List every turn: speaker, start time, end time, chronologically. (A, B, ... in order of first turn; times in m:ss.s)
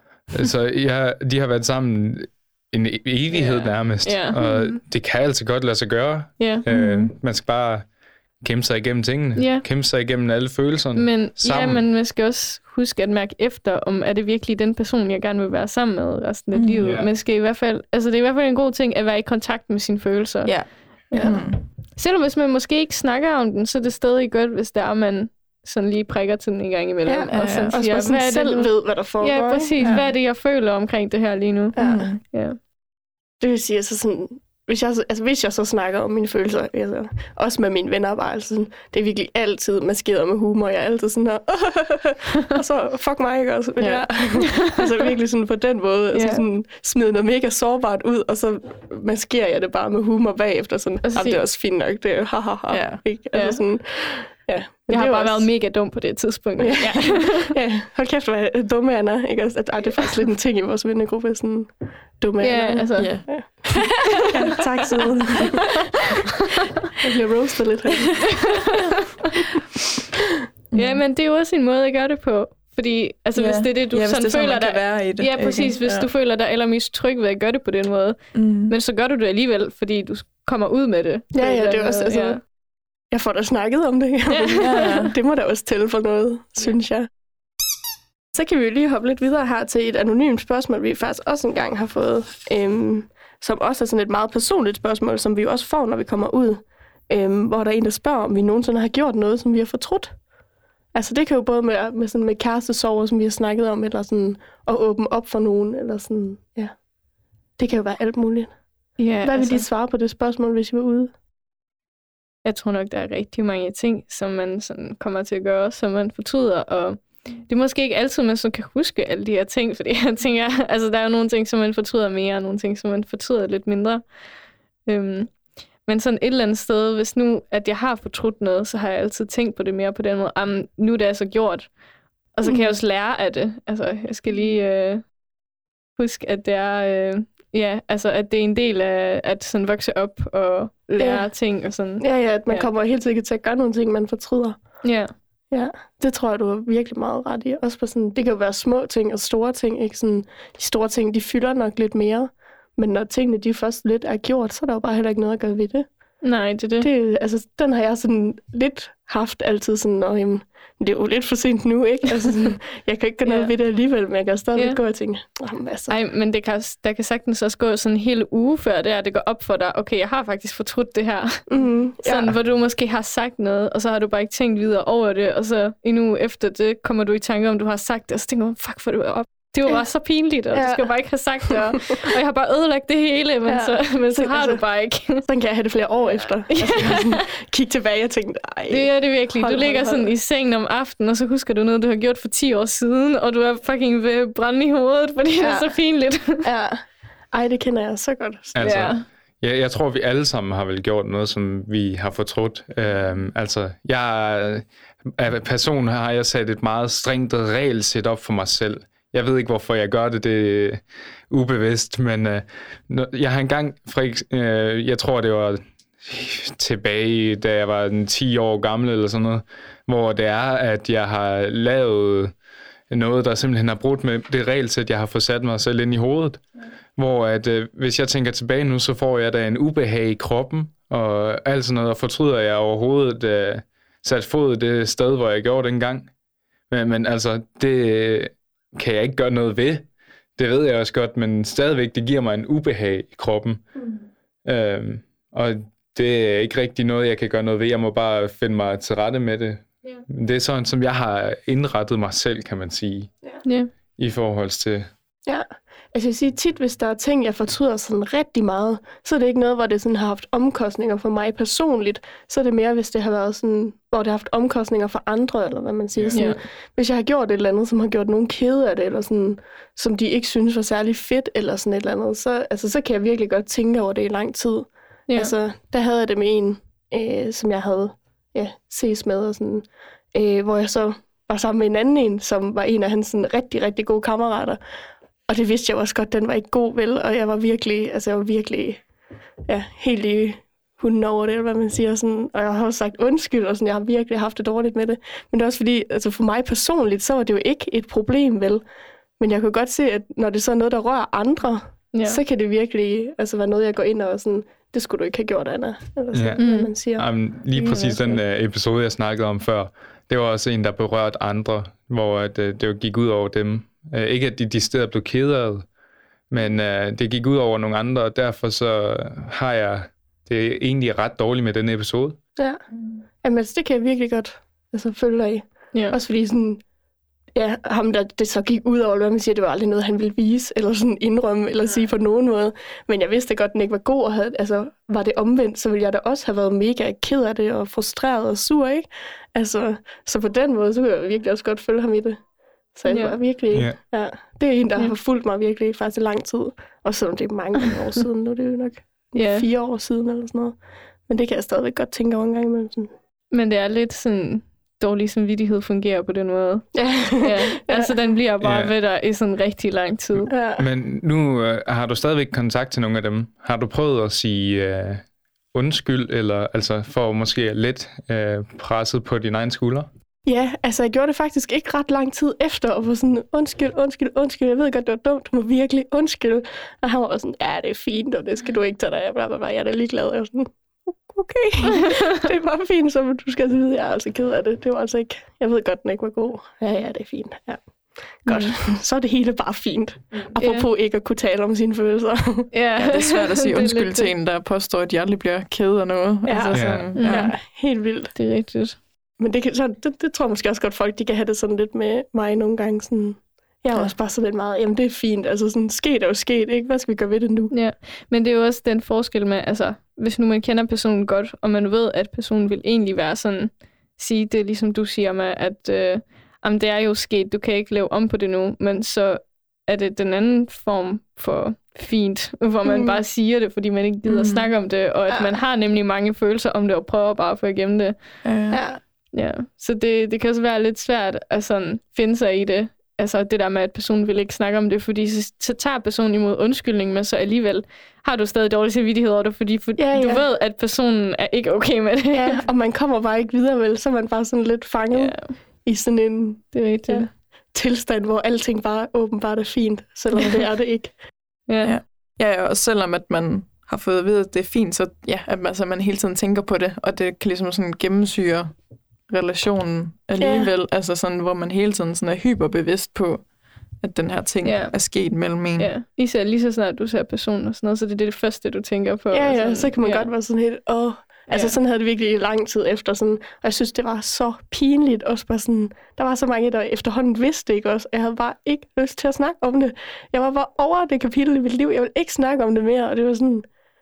0:00.3-0:07.9 A
0:03.3-0:04.8 B
0:06.4-0:06.6 B
0:06.7-0:07.1 C
0:08.4-0:11.8 A
0:09.4-0:09.6 B
0:11.0-0:20.6 B
0:16.5-0:16.8 C
0:16.8-0:17.1 A
0:20.5-0:21.6 C
0:21.1-0:21.4 D
0:22.0-0:32.6 B
0:27.1-0:30.0 D
0:27.3-0:27.8 C
0:29.8-0:30.1 C
0:31.8-0:32.2 D
0:31.8-0:32.2 C
0:33.4-0:55.5 D
0:43.8-0:44.6 C
0:46.1-0:46.4 B
0:51.0-0:51.4 B
0:52.7-0:53.0 C
0:53.3-0:53.6 B
0:54.9-0:57.5 B
0:56.6-1:05.9 D
1:02.4-1:03.6 B
1:03.0-1:04.2 C
1:07.0-1:08.7 D
1:10.7-1:11.0 C
1:10.7-1:22.4 B
1:13.4-1:16.1 C
1:18.3-1:18.7 C
1:21.3-1:22.4 D
1:23.1-1:27.1 D
1:24.4-1:24.8 B
1:24.6-1:25.1 C
1:28.3-1:40.2 D
1:40.9-1:46.8 D
1:47.6-1:48.5 D
1:49.0-1:49.7 B
1:49.0-1:51.1 D
1:52.4-2:04.1 B
2:04.9-2:11.7 B
2:12.3-2:15.1 B
2:16.0-2:22.7 B
2:21.0-2:25.0 D
2:24.8-2:25.1 B
2:25.5-2:35.9 D
2:36.2-2:36.9 B
2:36.8-2:45.9 D
2:43.2-2:43.5 B
2:45.9-2:51.5 B
2:51.5-2:52.4 D
2:52.0-3:05.3 B
3:00.5-3:00.9 D
3:03.5-3:10.1 D
3:06.5-3:07.2 B
3:08.7-3:16.4 B
3:15.4-3:15.7 D
3:16.3-3:18.9 D
3:18.6-3:42.3 A
3:18.6-3:19.0 B
3:42.9-3:46.4 A
3:47.0-3:56.1 A
3:56.7-4:03.6 A
4:04.4-4:13.1 A
4:13.4-4:13.7 B
4:14.0-4:14.9 A
4:15.3-4:44.6 D
4:26.0-4:26.2 A
4:26.1-4:26.4 B
4:35.1-4:35.3 B
4:45.3-4:48.8 D
4:49.5-4:58.6 D
4:59.2-5:08.1 D
5:01.9-5:02.2 B
5:06.1-5:15.7 A
5:06.4-5:06.7 B
5:16.3-5:22.2 A
5:23.2-5:26.6 D
5:27.4-5:52.9 D
5:42.9-5:43.2 B
5:43.5-5:43.8 A
5:49.1-5:49.5 B
5:53.3-6:00.3 B
5:56.8-5:57.9 D
5:58.4-5:58.7 A
6:00.3-6:00.7 D
6:00.6-6:09.9 A
6:10.3-6:32.5 D
6:28.3-6:28.6 B
6:30.4-6:30.7 B
6:32.5-6:34.1 B
6:32.8-6:37.3 C
6:36.3-6:38.1 D
6:36.5-6:36.9 A
6:37.0-6:37.6 B
6:38.1-6:38.8 B
6:39.2-6:47.5 D
6:47.5-7:08.2 B
7:02.6-7:03.0 D
7:04.1-7:04.5 C
7:05.1-7:05.4 D
7:08.2-7:08.6 C
7:08.5-7:08.8 D
7:09.1-7:22.4 B
7:19.8-7:20.3 D
7:22.1-7:30.9 D
7:24.9-7:25.3 B
7:26.5-7:27.1 B
7:31.5-7:31.8 B
7:31.6-7:38.5 C
7:39.1-7:43.3 C
7:40.2-7:40.5 D
7:43.8-7:45.7 C
7:44.4-7:44.9 B
7:45.6-7:50.1 B
7:49.1-8:03.5 D
7:51.3-7:51.6 B